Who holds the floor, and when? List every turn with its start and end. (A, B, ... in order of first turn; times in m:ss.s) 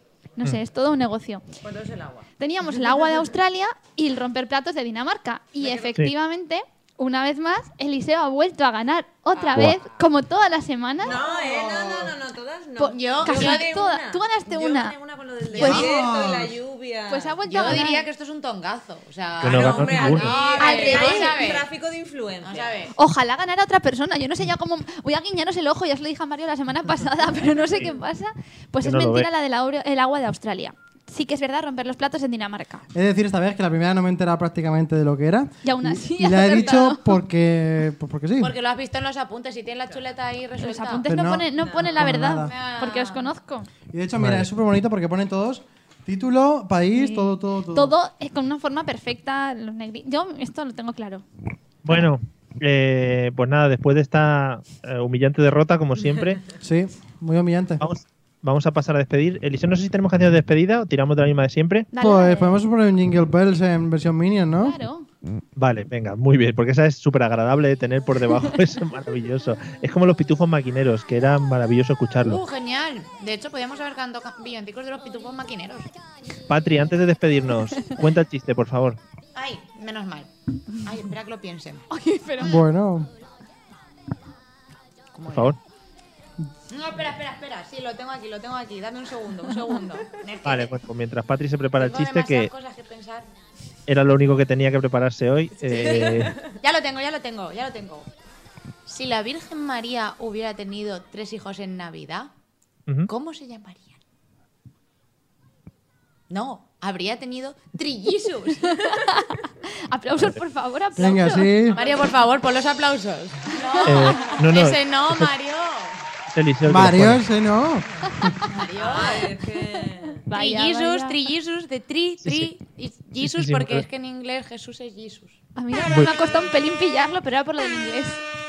0:00.4-0:01.4 A
0:01.6-0:03.3 B
0:02.4-0:11.2 A
0:05.6-0:06.0 B
0:09.3-0:09.8 B
0:11.0-0:17.4 B
0:11.1-0:12.0 C
0:12.8-0:14.9 A
0:12.9-0:13.7 C
0:15.6-0:15.8 A
0:15.6-0:16.5 D
0:17.1-0:18.1 A
0:17.4-0:21.7 C
0:19.4-0:20.3 E
0:19.4-0:22.9 B
0:20.4-0:21.4 A
0:22.4-0:22.9 C
0:23.0-0:32.8 A
0:28.8-0:29.3 E
0:32.9-0:38.5 D
0:35.6-0:37.2 A
0:38.4-0:41.1 C
0:39.8-0:40.2 B
0:40.6-0:43.7 A
0:41.1-0:42.5 D
0:41.6-0:42.0 B
0:42.3-0:43.3 C
0:43.9-0:47.9 D
0:44.2-0:44.5 E
0:46.9-0:51.2 A
0:51.8-0:56.4 E
0:56.6-0:57.9 D
0:57.8-1:01.9 E
1:01.9-1:02.6 A
1:01.9-1:04.8 D
1:04.6-1:05.1 A
1:05.6-1:12.4 E
1:12.2-1:15.9 C
1:16.5-1:19.0 E
1:19.3-1:21.9 C
1:21.9-1:22.6 A
1:22.4-1:23.1 D
1:25.2-1:25.5 C
1:25.3-1:25.6 E
1:26.7-1:30.8 C
1:30.4-1:32.5 E
1:31.8-1:33.3 C
1:33.9-1:36.3 E
1:35.6-1:36.6 B
1:35.6-1:38.1 C
1:38.8-1:42.3 C
1:43.1-1:44.0 C
1:46.3-1:48.6 C
1:48.7-1:51.5 A
1:51.0-1:51.8 D
1:51.7-1:52.2 B
1:51.7-1:56.0 C
1:53.8-1:55.3 E
1:54.0-1:54.4 B
1:56.3-1:57.2 E
1:56.6-1:58.4 D
1:58.4-1:59.3 C
1:58.8-2:00.3 B
2:00.3-2:01.2 A
2:00.3-2:05.4 C
2:02.2-2:02.5 E
2:03.2-2:03.8 E
2:05.6-2:08.2 A